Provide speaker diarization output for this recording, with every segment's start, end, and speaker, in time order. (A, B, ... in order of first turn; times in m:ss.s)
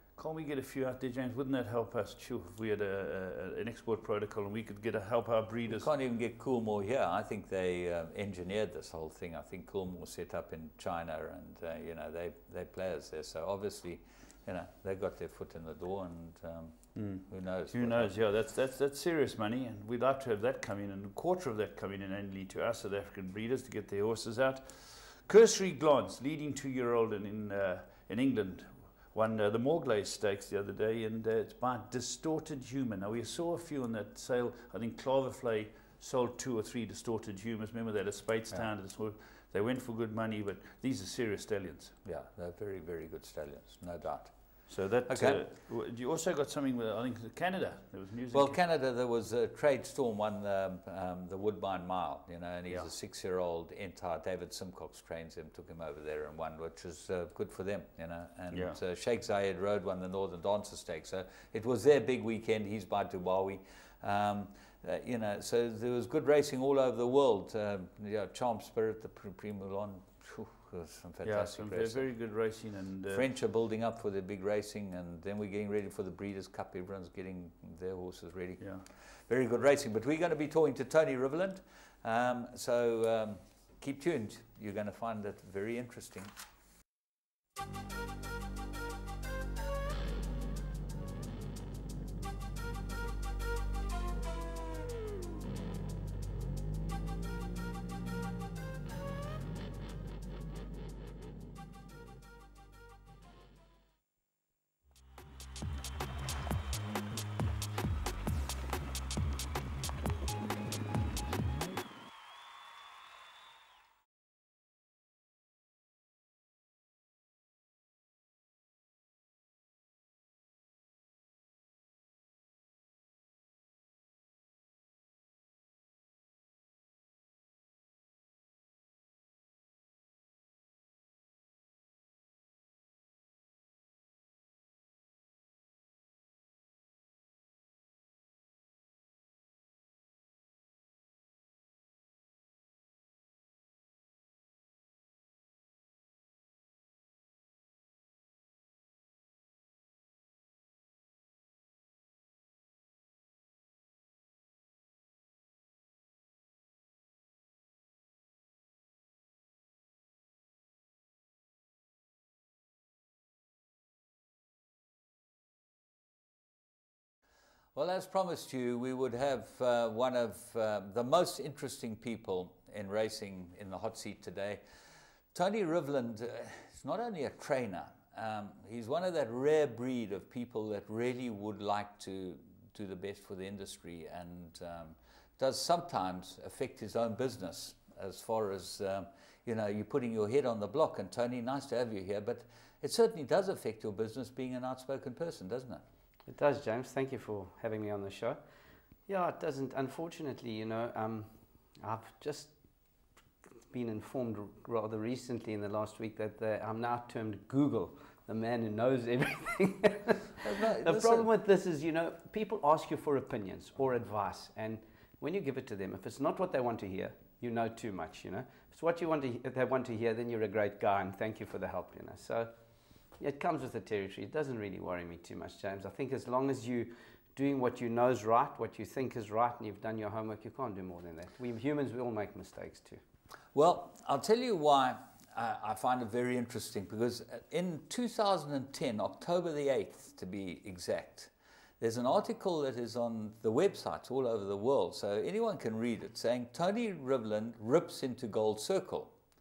0:00.2-0:05.9 A
0:05.7-0:18.1 B
0:17.0-0:42.0 A
0:42.0-0:45.4 B
0:44.7-0:48.6 A
0:48.3-1:12.1 B
0:58.5-0:58.8 A
1:11.2-1:13.3 A
1:13.1-1:26.3 B
1:18.6-1:18.8 A
2:47.8-2:54.6 B
2:55.3-3:15.8 B
3:16.3-3:18.4 C
3:19.1-3:22.5 C
3:23.7-3:42.5 C
3:30.4-3:31.3 B
3:43.2-3:53.0 C
3:53.5-4:09.2 B